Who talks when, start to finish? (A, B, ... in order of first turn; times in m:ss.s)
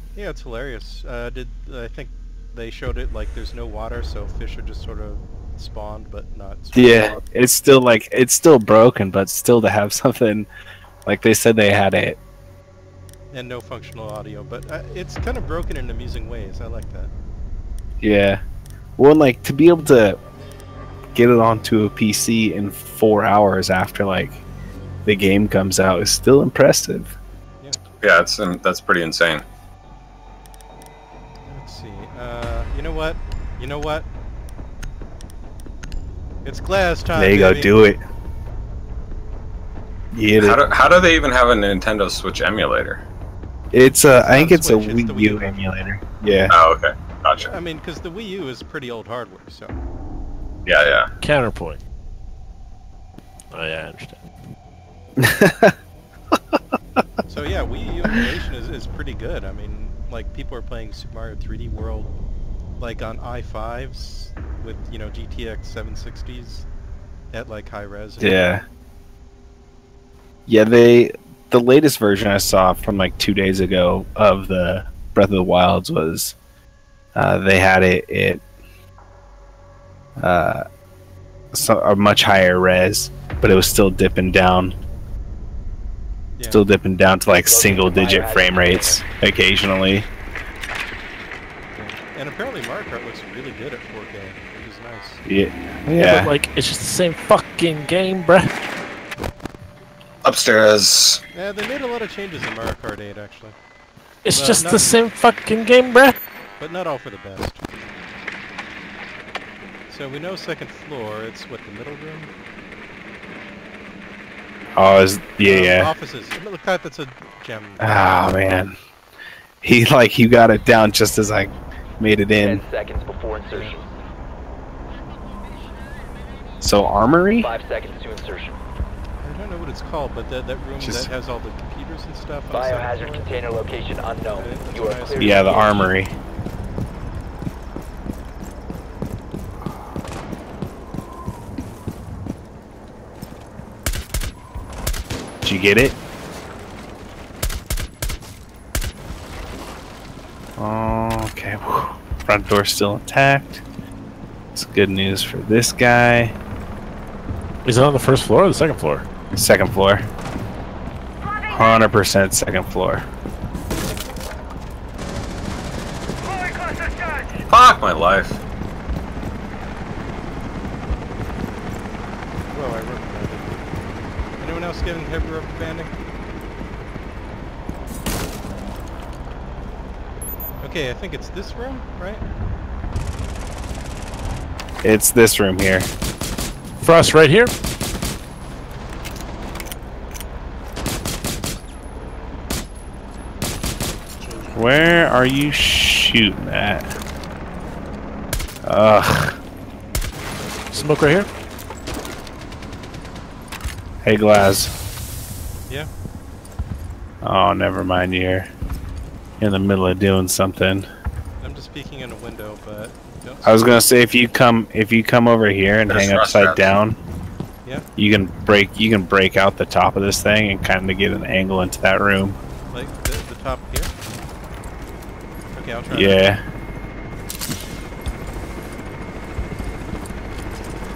0:00.1-0:07.2 A
0:06.7-0:10.5 B
0:11.0-0:12.2 B
0:13.3-0:17.1 A
0:18.0-0:18.4 B
0:19.0-0:20.2 B
0:21.1-0:24.4 B
0:25.0-0:27.1 B
0:28.0-0:29.4 C
0:31.4-0:34.1 A
0:36.4-0:37.7 A
0:37.1-0:38.0 B
0:40.1-0:40.6 B
0:40.4-0:43.0 C
0:43.7-0:46.6 B
0:43.7-0:45.6 A
0:46.5-0:47.5 C
0:47.4-0:49.8 A
0:50.6-0:51.1 C
0:51.2-0:51.8 D
0:53.5-0:54.3 D
0:55.2-0:55.8 B
0:57.2-1:02.1 A
1:02.8-1:06.7 A
1:07.3-1:08.6 A
1:08.2-1:08.6 B
1:10.5-1:16.4 B
1:17.1-1:18.4 B
1:20.2-1:20.6 B
1:21.5-1:24.7 B
1:26.3-1:26.6 A
1:26.5-1:30.1 B
1:27.4-1:29.0 E
1:31.7-1:35.2 A
1:35.2-1:36.3 B
1:36.0-1:38.5 D
1:40.2-1:41.2 C
1:41.3-1:43.6 A
1:44.2-1:46.2 D
1:44.3-1:44.9 A
1:46.6-1:47.6 A
1:49.9-1:52.3 A
1:54.7-1:55.9 B
1:55.4-1:58.2 A
1:57.8-1:58.8 B
1:59.6-2:02.6 B
2:02.3-2:03.9 E
2:06.6-2:07.5 B
2:07.4-2:08.6 E
2:09.2-2:13.4 A
2:10.8-2:11.1 B
2:12.5-2:15.7 E
2:14.3-2:15.9 A
2:15.2-2:16.1 B
2:25.4-2:26.0 B
2:30.6-2:33.6 B
2:34.5-2:36.3 B
2:37.6-2:39.0 D
2:39.3-2:40.0 B
2:41.5-2:43.0 B
2:47.5-2:48.4 C
2:52.5-2:53.6 A
2:54.4-2:55.9 A
3:00.6-3:02.2 A
3:04.8-3:05.9 B
3:06.8-3:07.5 D
3:14.5-3:16.9 B
3:18.6-3:19.4 B
3:20.7-3:21.3 D
3:24.0-3:24.7 B
3:27.2-3:28.5 B
3:29.4-3:30.9 B
3:31.4-3:33.7 A
3:33.4-3:37.0 B
3:35.9-3:36.7 C
3:38.0-3:42.4 B
3:42.7-3:43.9 A
3:45.5-3:46.3 A
3:45.9-3:46.4 B